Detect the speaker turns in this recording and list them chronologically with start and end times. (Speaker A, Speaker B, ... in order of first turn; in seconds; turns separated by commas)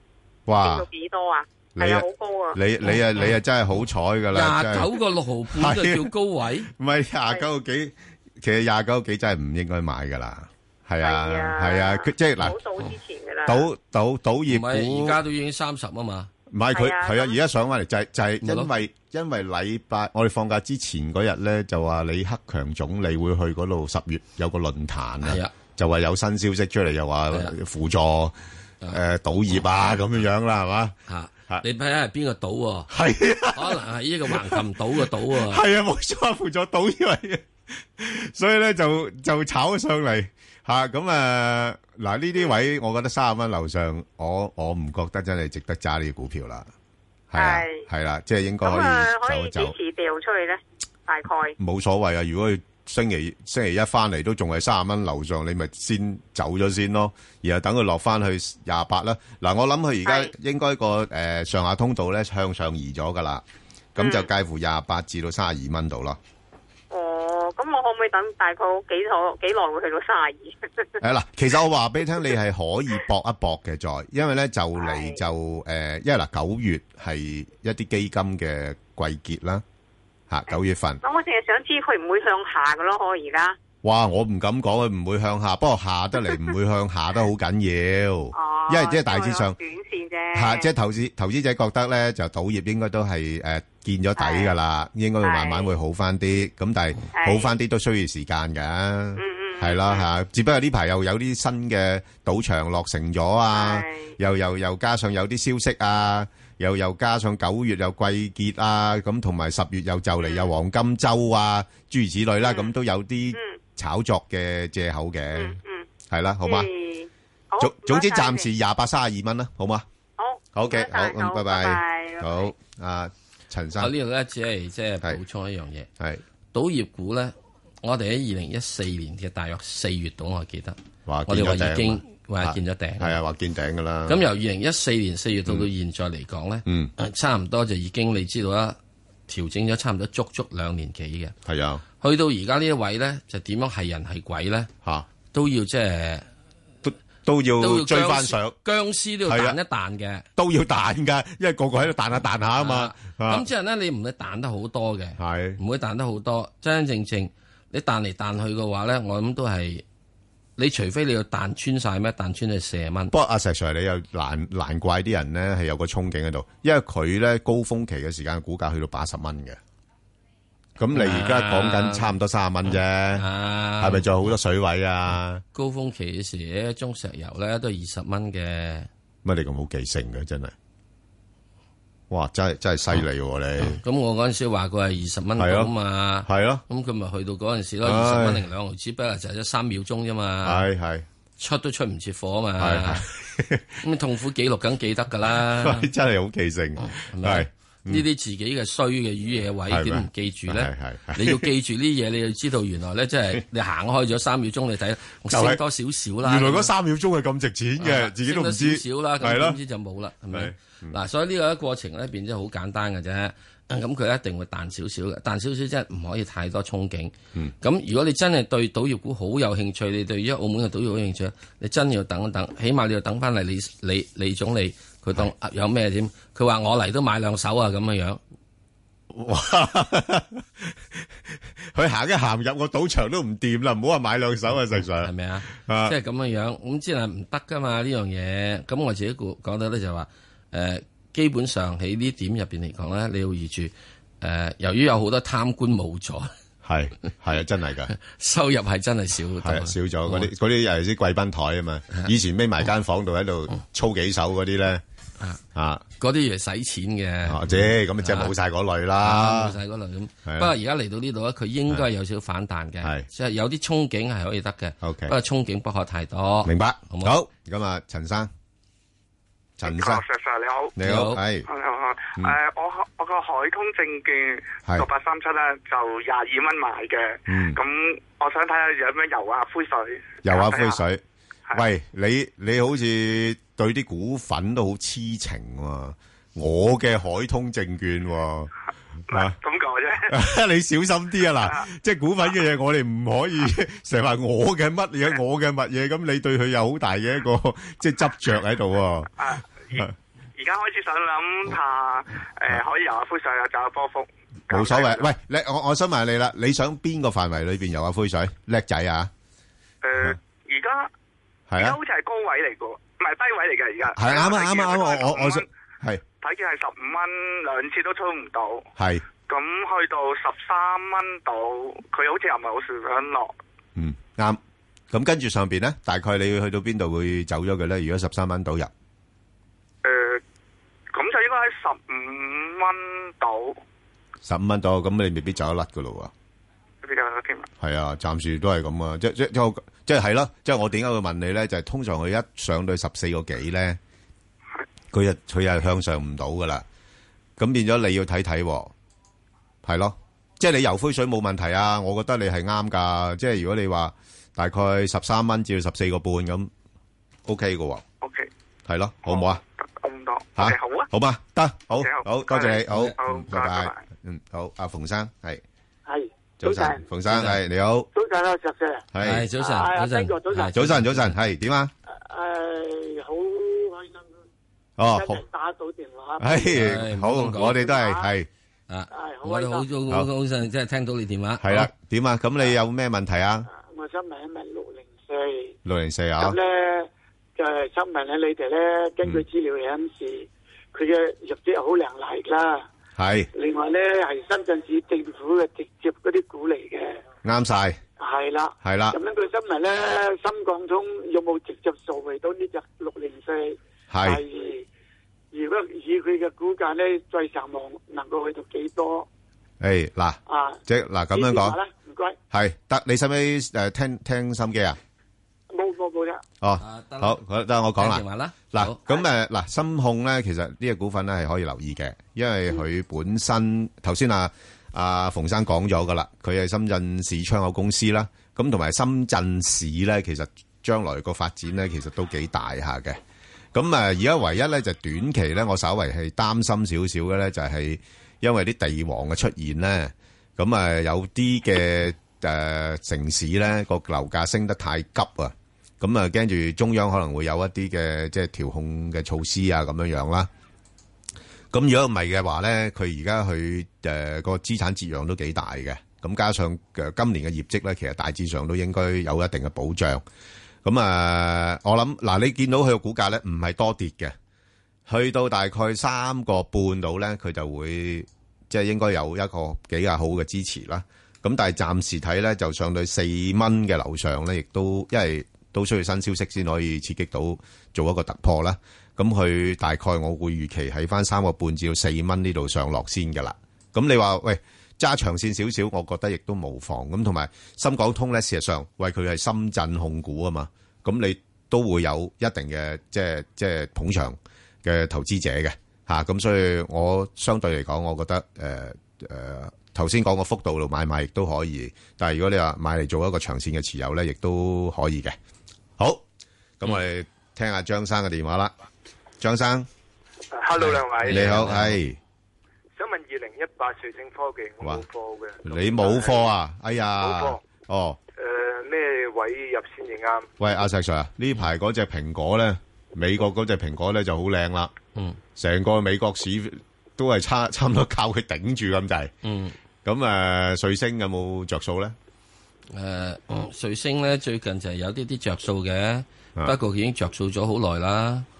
Speaker A: 0.5-0.9, Speaker B: 0.6-2.6, Speaker A: 1.8-4.9, Speaker C: 4.3-6.7, Speaker A: 5.5-6.1, Speaker A: 6.7-12.6, Speaker B: 11.0-13.7, Speaker A: 13.5-15.2, Speaker C: 14.5-16.3, Speaker A: 16.5-28.4, Speaker B: 16.7-17.4, Speaker C: 18.4-18.7, Speaker C: 25.2-25.5, Speaker A: 28.9-31.0, Speaker C: 31.1-32.9, Speaker A: 32.9-34.6, Speaker C: 33.5-35.6, Speaker A: 35.2-46.7, Speaker A: 47.3-49.8, Speaker B: 47.4-47.9, Speaker B: 48.6-51.5, Speaker A: 51.6-63.4, Speaker B: 60.0-60.3, Speaker A: 64.0-66.2, Speaker B: 64.0-64.3, Speaker B: 66.9-70.9, Speaker A: 71.0-79.6, Speaker B: 74.8-75.2, Speaker A: 80.3-81.0, Speaker B: 81.0-83.6, Speaker A: 83.8-89.6, Speaker B: 88.3-90.7, Speaker A: 90.3-116.7, Speaker B: 94.2-94.5, Speaker B: 95.2-95.7, Speaker B: 97.1-97.5, Speaker B: 99.2-100.1, Speaker B: 103.5-104.2, Speaker B: 110.2-110.5, Speaker B: 112.4-112.8, Speaker B: 113.3-113.6, Speaker B: 115.3-115.9, Speaker B: 116.4-118.5, Speaker A: 117.6-119.9, Speaker B: 120.2-122.5, Speaker A: 120.5-123.9, Speaker C: 123.8-125.9, Speaker C: 126.5-133.2, Speaker A: 131.1-134.2, Speaker C: 134.1-141.4, Speaker A: 136.7-136.9, Speaker A: 141.5-141.8, Speaker C: 142.0-144.7, Speaker C: 145.3-146.3, Speaker A: 146.8-148.6, Speaker C: 147.6-150.3, Speaker A: 149.2-149.6, Speaker A: 150.4-153.5, Speaker C: 152.6-159.8, Speaker A: 155.2-155.6, Speaker C: 160.6-163.1, Speaker A: 163.1-169.6, Speaker A: 170.8-173.2, Speaker C: 170.9-172.1, Speaker C: 172.7-174.0, Speaker A: 173.8-175.4, Speaker C: 175.5-178.9, Speaker A: 179.2-180.5, Speaker A: 182.1-183.8, Speaker C: 183.6-190.7, Speaker A: 185.4-185.7, Speaker A: 186.2-186.6, Speaker A: 187.8-188.4, Speaker A: 190.4-191.1, Speaker C: 191.4-193.1, Speaker A: 192.6-193.8, Speaker C: 193.8-195.9, Speaker A: 195.4-198.1, Speaker C: 196.8-206.7, Speaker A: 199.7-201.5, Speaker A: 205.3-205.6, Speaker A: 206.2-209.6, Speaker C: 207.8-228.2, Speaker A: 210.3-211.0, Speaker A: 229.1-230.8, Speaker A: 231.7-236.0, Speaker C: 234.8-246.3, Speaker A: 246.6-247.9, Speaker C: 248.0-250.3, Speaker A: 249.4-254.8, Speaker A: 255.5-255.8, Speaker C: 256.0-258.3, Speaker A: 257.2-259.6, Speaker C: 259.0-267.2, Speaker A: 260.2-260.5, Speaker A: 264.8-265.1, Speaker A: 266.4-268.3, Speaker A: 269.6-270.0, Speaker D: 269.6-270.8, Speaker A: 270.8-271.5, Speaker C: 270.8-271.2, Speaker D: 271.5-280.8, Speaker A: 277.3-277.6, Speaker A: 280.2-281.0, Speaker A: 281.5-288.5, Speaker A: 289.1-289.4, Speaker D: 289.1-290.1, Speaker A: 290.1-299.2, Speaker D: 299.2-305.1, Speaker A: 304.5-309.1, Speaker D: 309.8-310.9, Speaker A: 311.5-311.8, Speaker D: 311.6-315.5, Speaker A: 313.9-316.0, Speaker D: 316.2-318.7, Speaker A: 318.8-319.1, Speaker D: 319.2-323.3, Speaker A: 323.8-324.4, Speaker A: 324.9-328.7, Speaker D: 329.8-330.2, Speaker D: 330.9-333.6, Speaker A: 334.2-336.1, Speaker D: 336.8-337.5, Speaker A: 337.6-343.8, Speaker A: 344.9-346.6, Speaker A: 347.4-348.7, Speaker A: 349.6-356.5, Speaker A: 357.2-357.8, Speaker D: 358.0-358.3, Speaker A: 358.7-359.4, Speaker D: 359.1-360.9, Speaker A: 360.4-365.4, Speaker D: 361.7-363.8, Speaker C: 362.7-363.0, Speaker E: 365.9-366.9, Speaker A: 366.4-367.9, Speaker C: 367.1-367.4, Speaker E: 367.9-368.9, Speaker A: 368.9-369.3, Speaker C: 369.0-371.1, Speaker E: 369.4-370.7, Speaker A: 370.5-371.7, Speaker E: 371.9-374.1, Speaker A: 374.8-375.2, Speaker E: 374.8-376.7, Speaker A: 376.2-378.3, Speaker C: 376.5-377.6, Speaker E: 377.5-378.1, Speaker C: 378.7-381.7, Speaker E: 378.9-379.7, Speaker A: 381.4-383.5, Speaker E: 383.5-385.6, Speaker A: 385.6-386.4, Speaker E: 386.2-392.7, Speaker A: 393.0-393.3, Speaker E: 393.4-397.0, Speaker A: 397.2-397.8, Speaker E: 398.0-404.6, Speaker A: 398.6-399.0, Speaker A: 403.9-404.2, Speaker E: 405.3-409.1, Speaker A: 409.6-411.6, Speaker E: 410.3-410.6, Speaker E: 411.1-412.2, Speaker A: 412.3-414.8, Speaker E: 415.5-416.2, Speaker A: 416.4-433.0, Speaker C: 416.6-417.2, Speaker C: 417.8-418.9, Speaker A: 433.5-450.3, Speaker A: 451.5-460.0, Speaker A: 460.6-464.1, Speaker A: 464.9-505.2, Speaker A: 505.8-506.1, Speaker A: 506.6-508.5, Speaker A: 509.2-509.7, Speaker F: 510.3-511.4, Speaker C: 510.6-511.8, Speaker A: 511.1-512.0, Speaker F: 512.8-516.3, Speaker A: 515.4-518.0, Speaker F: 517.0-517.4, Speaker F: 518.2-520.3, Speaker A: 520.4-524.7, Speaker A: 525.4-529.1, Speaker C: 529.2-529.6, Speaker A: 529.8-532.0, Speaker C: 532.7-538.3